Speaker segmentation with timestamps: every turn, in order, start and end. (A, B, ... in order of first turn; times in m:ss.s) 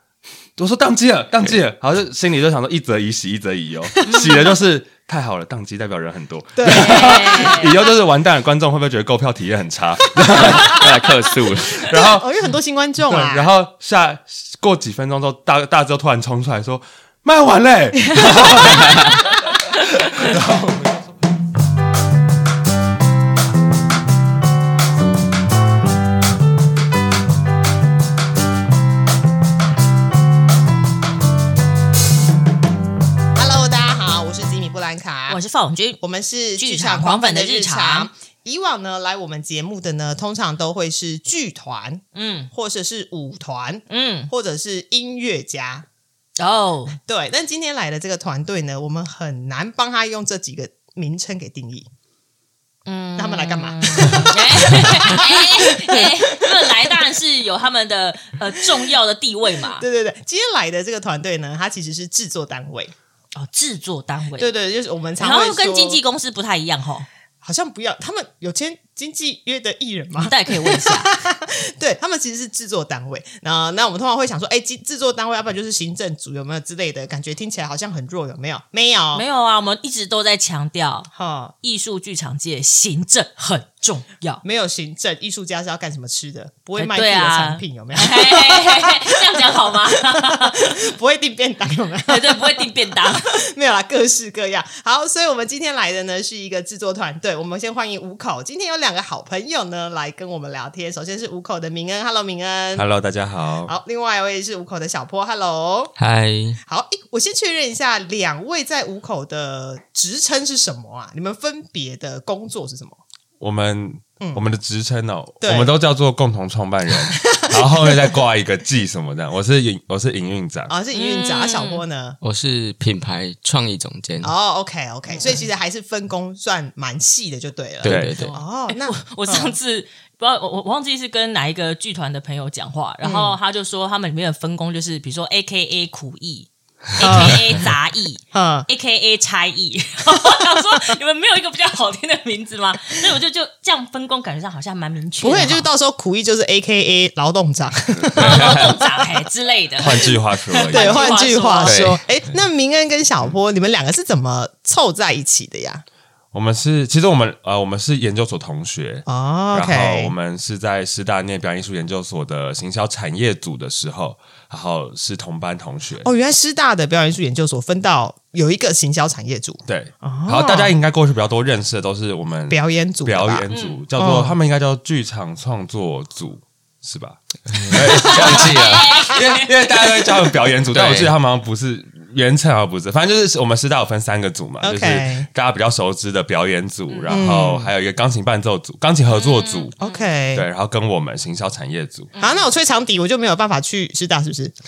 0:00.6-0:10.9 A
0:04.1-0:04.5 B
0:06.6-0:07.7 C
0:06.7-0:07.7 B
0:10.3-0:11.9 D
0:11.8-0:12.3 A
0:11.8-0:13.5 C
0:13.1-0:21.1 A
0:18.1-0:19.0 C
0:18.7-0:19.1 D
0:33.3-0:35.4 C
0:35.3-0:36.0 B
0:36.0-0:45.8 C
0:36.6-0:38.1 B
0:42.1-0:42.5 B
0:43.9-0:44.3 B
0:46.4-0:47.0 B
0:47.0-0:51.9 C
0:52.8-0:59.8 B
0:53.2-0:57.0 C
0:59.7-1:02.9 C
1:03.3-1:04.5 B
1:04.4-1:06.0 C
1:05.2-1:07.1 B
1:07.4-1:19.2 C
1:10.2-1:11.1 B
1:19.1-1:21.1 B
1:21.1-1:21.5 C
1:21.6-1:24.4 B
1:24.4-1:42.8 C
1:26.8-1:30.9 B
1:32.1-1:33.4 B
1:42.7-1:43.7 A
1:43.6-1:45.9 C
1:46.0-1:46.6 D
1:46.7-1:53.0 C
1:53.4-2:00.7 A
1:55.4-1:55.7 C
1:57.1-1:57.9 C
2:00.7-2:02.2 C
2:00.9-2:01.8 B
2:02.2-2:04.3 D
2:04.2-2:09.5 C
2:05.1-2:05.4 B
2:07.8-2:08.3 D
2:07.8-2:08.2 A
2:08.2-2:25.7 B
2:13.0-2:13.4 C
2:17.0-2:17.7 C
2:17.1-2:17.4 D
2:18.3-2:18.7 C
2:25.2-2:29.0 C
2:28.2-2:28.7 D
2:28.2-2:30.1 B
2:29.8-2:31.2 A
2:30.0-2:35.8 C
2:30.7-2:32.0 B
2:31.6-2:32.0 D
2:36.3-2:46.1 A
2:39.0-2:40.1 C
2:46.0-2:50.7 C
2:49.7-3:09.7 A
2:52.5-2:54.4 C
2:53.5-2:53.8 B
2:57.5-2:58.8 D
2:58.0-2:59.4 B
3:00.7-3:01.1 D
3:04.6-3:05.3 C
3:06.9-3:07.2 B
3:07.1-3:07.7 C
3:09.1-3:10.1 B
3:09.8-3:10.4 C
3:10.3-3:12.1 A
3:12.1-3:12.4 B
3:12.2-3:14.5 C